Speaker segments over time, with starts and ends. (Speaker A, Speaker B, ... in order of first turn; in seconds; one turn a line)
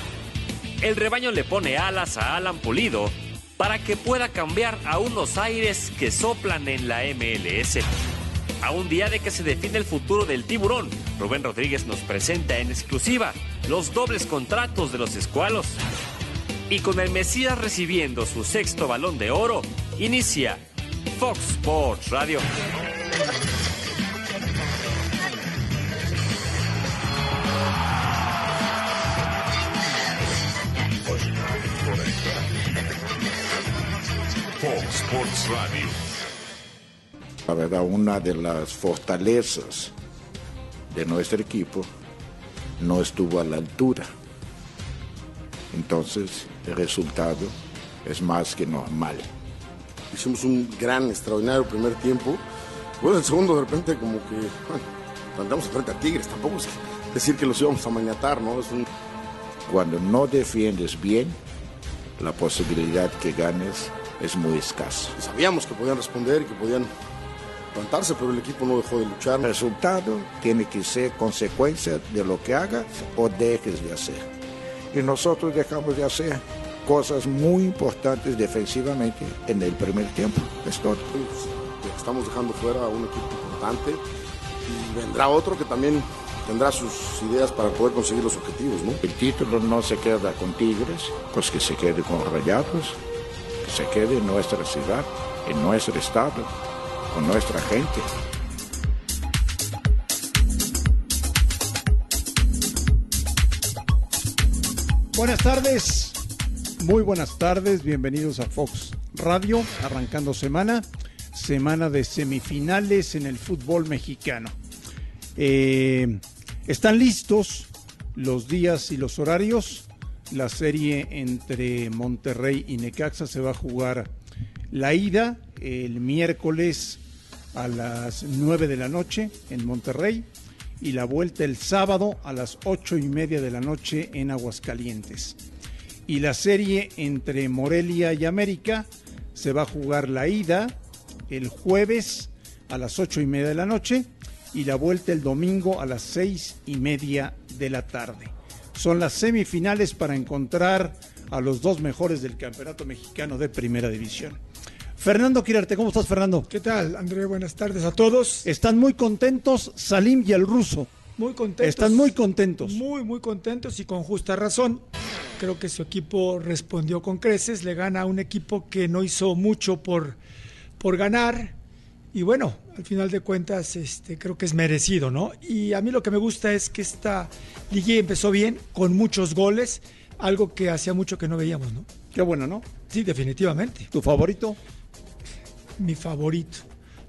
Speaker A: 0.8-7.8
Speaker A: 8.6-15.8
Speaker A: 16.7-22.4
Speaker B: 31.9-32.2
Speaker B: 34.7-35.8
Speaker B: 37.5-39.9
Speaker B: 40.9-41.9
Speaker B: 42.8-44.1
Speaker B: 45.7-49.3
Speaker C: 50.1-52.4
Speaker C: 53.0-58.9
Speaker B: 59.7-61.4
Speaker B: 62.2-65.2
Speaker C: 65.2-66.9
Speaker C: 67.7-69.4
Speaker B: 69.4-74.3
Speaker B: 74.9-81.1
Speaker C: 81.1-84.0
Speaker C: 84.7-89.0
Speaker B: 89.0-93.0
Speaker B: 93.6-96.5
Speaker B: 97.1-98.1
Speaker D: 105.2-106.2
Speaker D: 106.8-114.6
Speaker D: 115.4-124.1
Speaker D: 124.7-127.0
Speaker D: 127.5-130.3
Speaker D: 130.8-135.4
Speaker D: 136.1-140.8
Speaker D: 141.3-154.4
Speaker D: 155.0-156.5
Speaker E: 156.5-158.5
Speaker D: 158.4-160.9
Speaker E: 161.2-164.8
Speaker D: 161.6-162.8
Speaker E: 165.4-170.2
Speaker E: 170.8-171.5
Speaker E: 172.1-181.9
Speaker D: 182.1-182.7
Speaker E: 182.9-183.9
Speaker D: 183.9-184.6
Speaker E: 185.8-186.6